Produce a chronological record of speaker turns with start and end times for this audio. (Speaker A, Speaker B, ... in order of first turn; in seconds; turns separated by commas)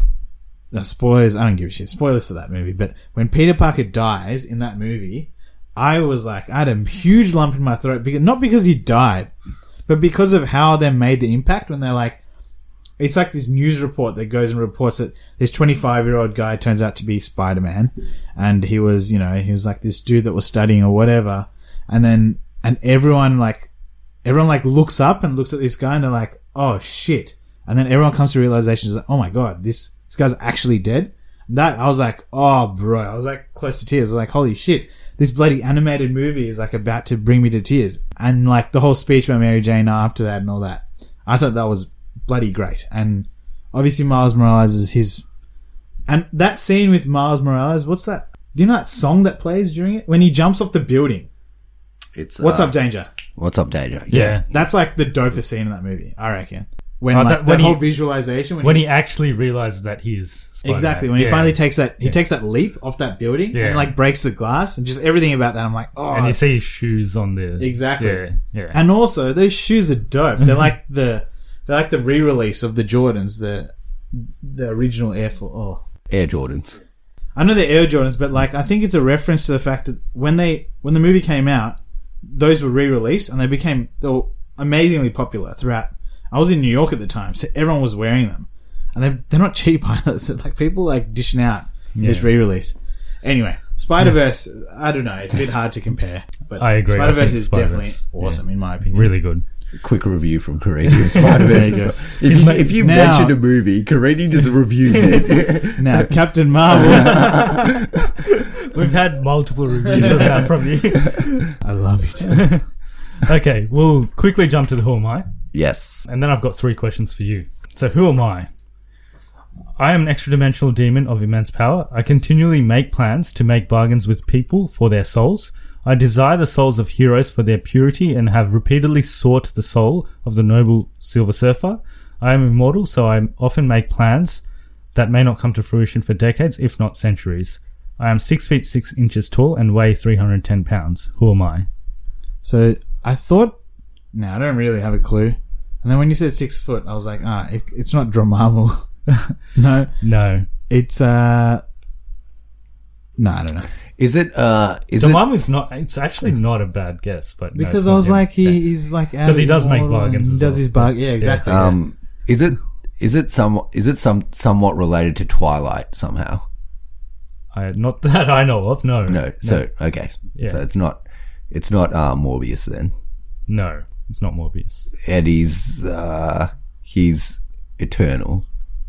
Speaker A: 0.7-9.3, Speaker A: 9.9-12.2, Speaker A: 13.0-23.7, Speaker A: 24.2-45.2, Speaker A: 46.1-51.3, Speaker B: 52.1-52.8, Speaker A: 52.4-53.1, Speaker B: 53.4-54.4, Speaker C: 54.1-54.5, Speaker A: 54.1-58.9, Speaker C: 57.1-57.8, Speaker C: 58.6-62.2, Speaker A: 60.6-66.4, Speaker C: 63.5-63.9, Speaker C: 66.1-68.8, Speaker A: 67.6-75.8, Speaker B: 76.1-76.8, Speaker A: 77.3-99.1, Speaker C: 92.0-92.3, Speaker C: 96.6-99.4, Speaker B: 99.7-106.1, Speaker C: 101.3-102.7, Speaker A: 101.4-103.4, Speaker A: 105.7-107.6, Speaker B: 106.7-108.1, Speaker C: 108.7-111.4, Speaker A: 109.9-110.2, Speaker A: 111.5-112.5, Speaker C: 112.3-112.6, Speaker C: 113.2-115.3, Speaker B: 115.5-116.0, Speaker C: 116.0-118.5, Speaker C: 119.8-134.4, Speaker C: 134.9-141.7, Speaker A: 142.4-143.6, Speaker A: 144.1-148.9, Speaker A: 149.5-149.9, Speaker C: 150.0-150.5, Speaker A: 150.7-151.6, Speaker A: 153.2-153.7, Speaker B: 154.0-155.3, Speaker C: 155.0-158.6, Speaker A: 157.5-161.8, Speaker C: 159.2-161.5, Speaker B: 161.4-166.4, Speaker C: 167.5-169.7, Speaker B: 169.1-172.9, Speaker C: 170.3-170.6, Speaker C: 173.5-174.9, Speaker B: 175.0-178.4